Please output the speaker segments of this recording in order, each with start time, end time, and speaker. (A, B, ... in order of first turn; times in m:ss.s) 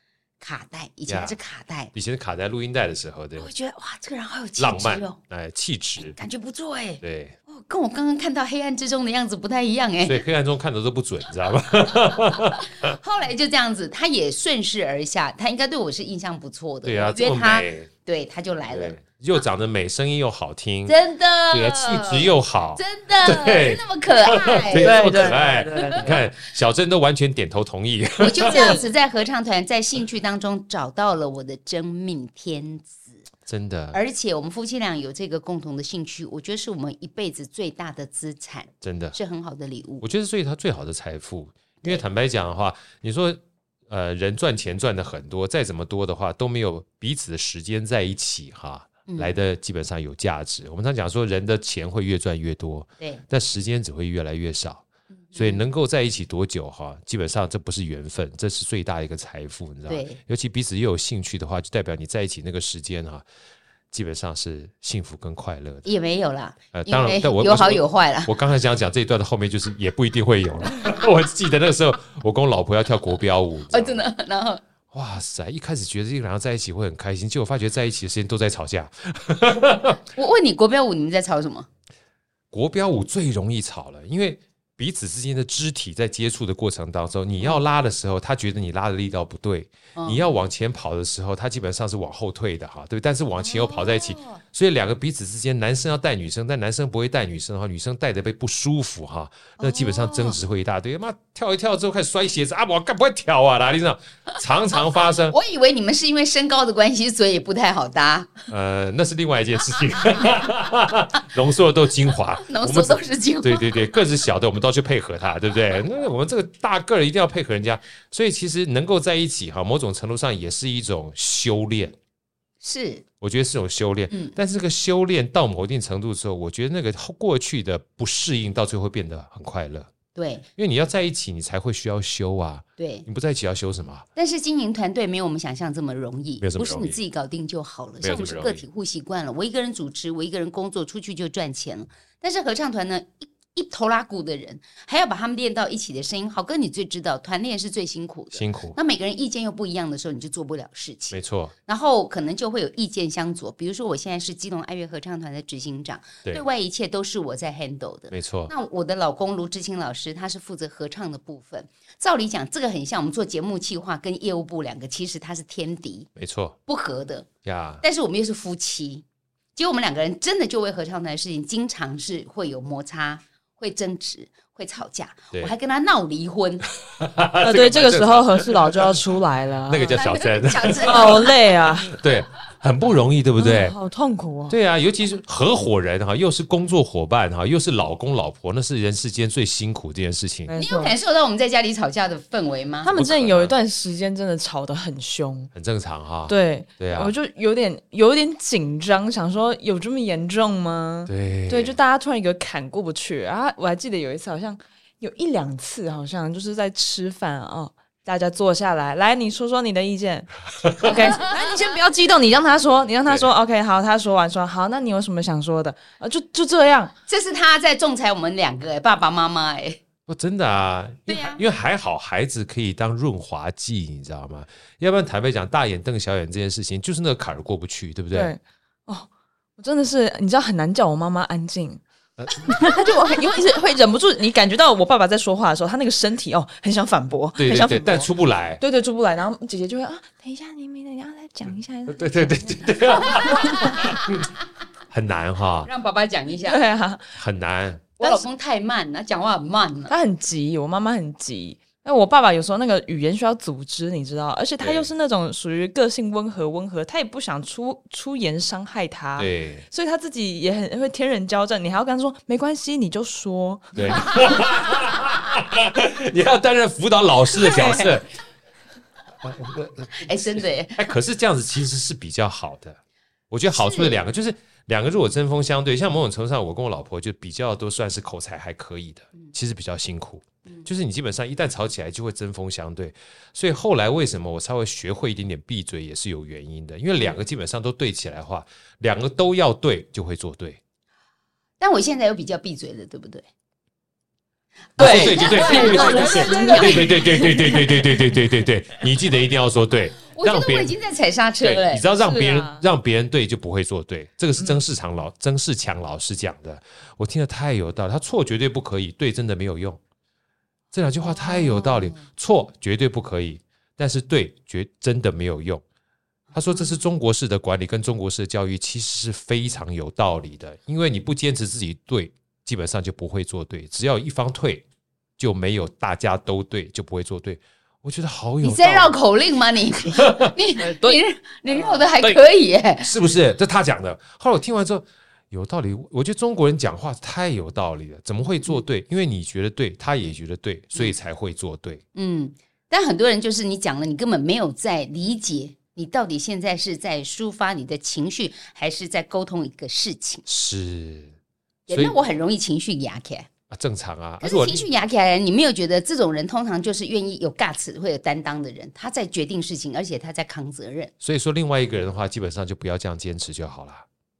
0:00.4-0:01.9 A
0:01.1-0:01.4 B
0:01.9-0:03.5 B
0:03.4-0:05.2 A
0:04.6-0:06.2 B
0:06.0-0:10.2 A
0:07.0-0:07.4 B
0:10.0-0:12.9 B
0:12.8-0:19.0 A
0:16.8-0:17.9 B
0:18.7-0:21.0 B
0:20.8-0:26.2 A
0:21.5-0:28.8 B
0:24.7-0:26.1 C
0:28.2-0:33.2 A
0:28.4-0:28.8 C
0:33.4-0:34.0 B
0:33.9-0:40.0 A
0:38.8-0:39.2 B
0:40.0-0:54.8 B
0:49.1-0:49.3 A
0:55.3-0:55.6 A
0:55.3-1:03.2 B
0:59.9-1:00.2 A
1:03.9-1:05.9 B
1:05.8-1:08.3 A
1:06.7-1:14.0 B
1:13.7-1:14.6 A
1:14.9-1:20.0 B
1:20.1-1:21.7 A
1:22.5-1:45.4 B
1:30.0-1:30.3 A
1:33.4-1:34.4 A
1:39.6-1:40.4 A
1:45.0-1:48.4 A
1:48.5-2:02.0 B
1:52.1-1:53.7 A
2:02.6-2:03.0 A
2:03.2-2:09.9 B
2:04.1-2:04.4 A
2:10.1-2:10.5 A
2:10.6-2:14.0 B
2:12.8-2:13.1 A
2:14.2-2:46.1 A
2:16.4-2:17.0 B
2:18.0-2:18.6 B
2:28.3-2:28.8 B
2:31.1-2:31.5 B
2:38.1-2:38.5 B
2:46.2-2:46.6 B
2:46.7-2:47.3 A
2:47.4-2:47.8 B
2:47.8-2:49.0 A
2:49.6-2:56.6 A
2:57.0-2:59.0 B
2:57.4-3:00.0 C
2:59.7-3:01.3 B
2:59.9-3:01.4 A
3:00.8-3:01.9 C
3:01.9-3:03.7 B
3:03.4-3:04.5 C
3:04.5-3:10.5 B
3:10.5-3:11.0 C
3:10.6-3:12.9 A
3:12.8-3:15.5 C
3:13.0-3:13.5 B
3:15.5-3:17.1 B
3:16.3-3:36.9 C
3:21.1-3:21.8 B
3:37.1-3:39.8 A
3:40.1-3:48.3 B
3:41.1-3:41.4 A
3:48.1-3:51.8 C
3:52.2-3:52.7 B
3:52.4-4:03.9 C
3:57.4-3:58.6 B
4:01.9-4:04.2 B
4:03.1-4:03.4 A
4:04.9-4:05.7 B
4:05.6-4:06.6 A
4:06.4-4:07.2 C
4:07.2-4:07.9 B
4:08.0-4:09.9 A
4:08.0-4:08.2 C
4:09.9-4:24.2 C
4:14.6-4:14.9 B
4:19.2-4:19.6 B
4:23.7-4:28.1 B
4:27.5-4:27.9 A
4:29.2-4:30.1 B
4:29.9-4:30.8 A
4:30.7-4:32.8 B
4:33.3-4:50.6 B
4:33.5-4:34.0 A
4:51.6-4:53.2 A
4:54.8-4:57.6 A
4:54.8-5:00.7 B
4:54.8-4:57.5 C
5:00.1-5:01.8 A
5:01.4-5:09.8 B
5:02.0-5:02.6 C
5:10.7-5:15.6 B
5:11.1-5:12.0 A
5:16.3-5:16.8 A
5:16.3-5:24.6 B
5:25.2-5:29.0 B
5:28.4-5:32.9 A
5:30.0-5:30.3 B
5:30.6-5:31.0 C
5:32.8-5:41.8 B
5:41.9-5:50.2 A
5:50.3-5:51.1 B
5:51.7-5:53.3 A
5:51.7-5:51.9 B
5:53.5-5:54.6 B
5:54.2-6:00.9 A
6:01.0-6:03.8 B